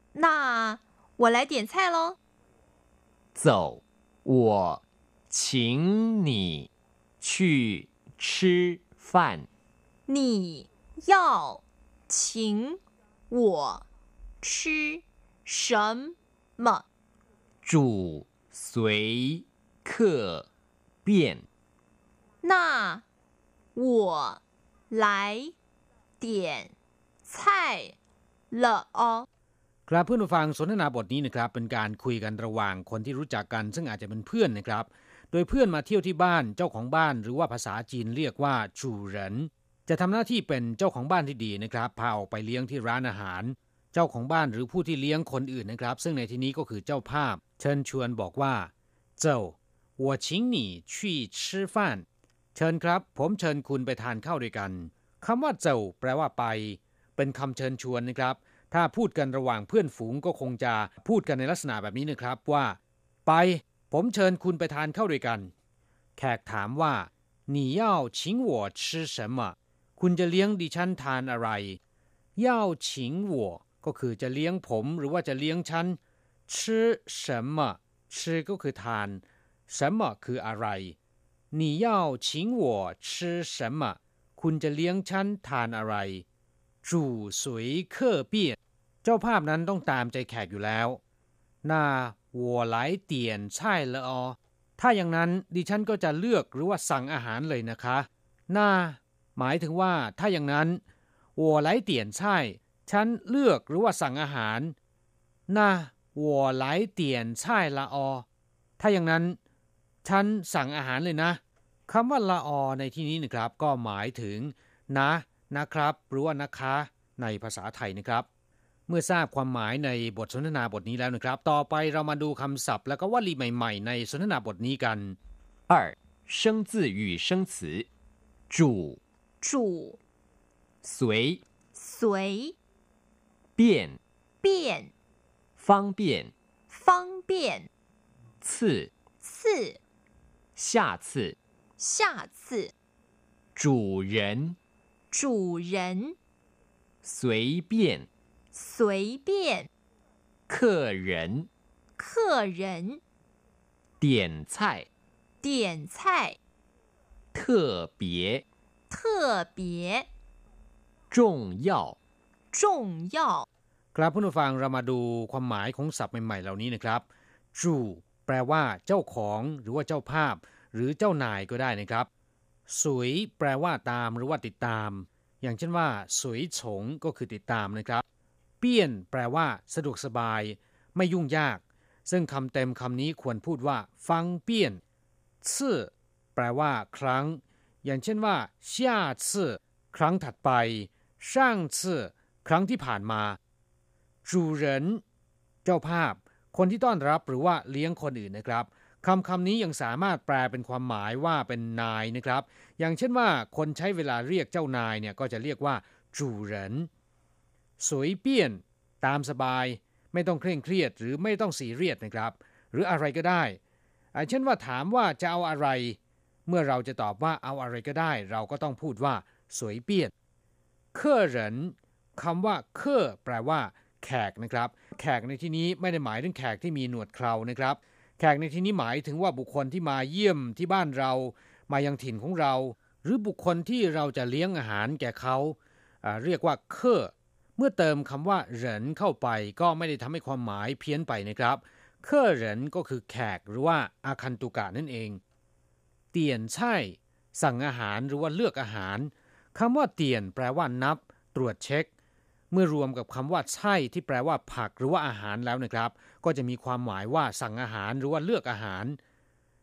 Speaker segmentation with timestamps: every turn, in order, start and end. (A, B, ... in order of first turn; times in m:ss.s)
0:00.1-0:02.2 A
0:03.3-0:06.7 B
0:07.2-0:09.5 B
0:10.1-0:13.8 A
0:14.4-0:16.8 A
0:17.6-0:20.5 B
0:21.0-0:21.4 B
0:22.4-0:23.0 A
0:23.7-0:24.4 A
0:24.9-0:25.5 A
0:26.2-0:26.7 A
0:27.3-0:27.9 A
0:28.5-0:29.3 A
0:29.9-1:05.5 C
1:06.2-1:11.8 C
1:12.4-1:20.9 C
1:21.5-1:26.2 C
1:26.8-1:31.0 C
1:31.6-1:40.8 C
1:41.4-1:44.7 C
1:45.5-1:48.2 C
1:48.8-1:49.4 C
1:50.0-1:58.2 C
1:58.9-2:05.2 C
2:05.7-2:07.8 B
2:08.5-2:09.0 B
2:09.4-2:10.0 A
2:10.8-2:11.4 B
2:11.7-2:12.5 A
2:13.6-2:14.0 B
2:14.4-2:14.9 A
2:15.6-2:16.3 B
2:16.7-2:17.7 A
2:18.4-2:18.9 B
2:19.2-2:19.8 A
2:20.6-2:21.4 B
2:21.8-2:22.7 A
2:23.5-2:24.6 B
2:25.1-2:26.2 A
2:27.0-2:28.1 B
2:28.5-2:29.7 A
2:30.5-2:31.5 B
2:32.0-2:33.0 A
2:34.0-2:34.9 B
2:35.4-2:36.4 A
2:37.3-2:38.4 B
2:38.9-2:40.1 A
2:41.1-2:42.0 B
2:42.5-2:43.4 A
2:43.9-2:52.1 C
2:52.7-2:58.0 C
2:58.6-3:04.8 C
3:05.4-3:13.4 C
3:14.2-3:15.0 C
3:15.6-3:26.9 C
3:27.8-3:33.6 C
3:34.1-3:40.1 C
3:40.9-4:05.2 C
4:06.1-4:11.9 C
4:12.5-4:19.0 C